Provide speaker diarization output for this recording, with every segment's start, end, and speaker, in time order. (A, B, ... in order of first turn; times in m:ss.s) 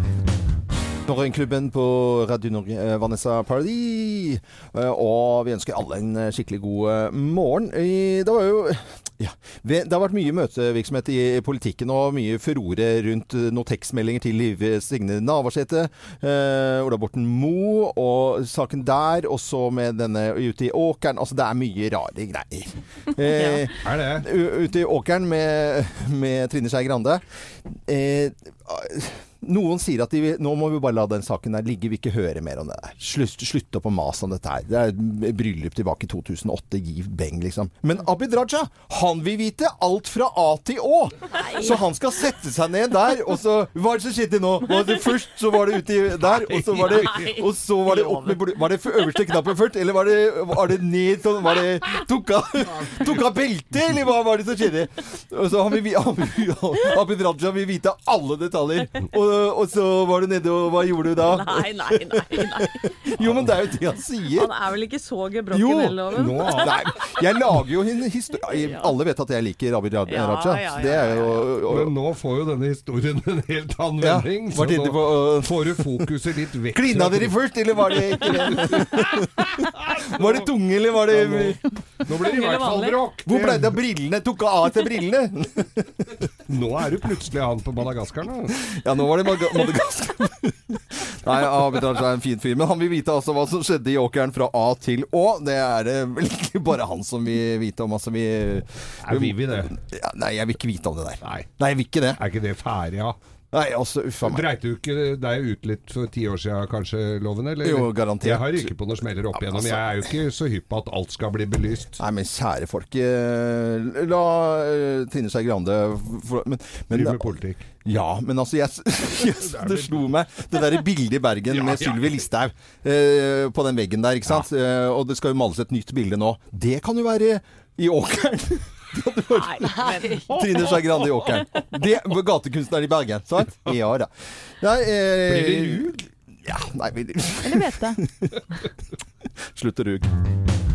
0:01.0-1:04.5 A
0:23.3-0:23.6 B
0:23.8-0:24.3 C
0:41.4-0:41.8 B
0:46.3-0:47.2 C
0:46.7-0:48.4 B
1:01.2-1:02.9 B
1:04.4-1:06.7 B
1:05.5-1:11.9 A
1:06.1-1:06.8 C
1:08.6-1:08.9 B
1:10.1-1:11.5 B
1:11.7-1:19.1 C
1:14.0-1:16.0 A
1:16.7-1:21.6 A
1:19.8-1:20.4 C
1:21.1-1:23.8 C
1:22.2-1:23.0 B
1:23.3-1:26.3 A
1:26.5-1:28.5 C
1:28.6-1:42.2 A
1:39.1-1:39.7 C
1:41.2-1:41.5 C
1:42.2-1:43.2 C
1:43.5-1:44.5 A
1:44.2-1:52.0 C
1:47.6-1:48.7 A
1:49.3-1:49.9 A
1:52.0-2:18.4 A
1:56.9-1:57.6 C
1:59.2-2:00.0 C
2:01.5-2:02.1 C
2:09.3-2:11.4 B
2:15.3-2:15.9 C
2:17.5-2:17.9 B
2:19.5-2:20.1 A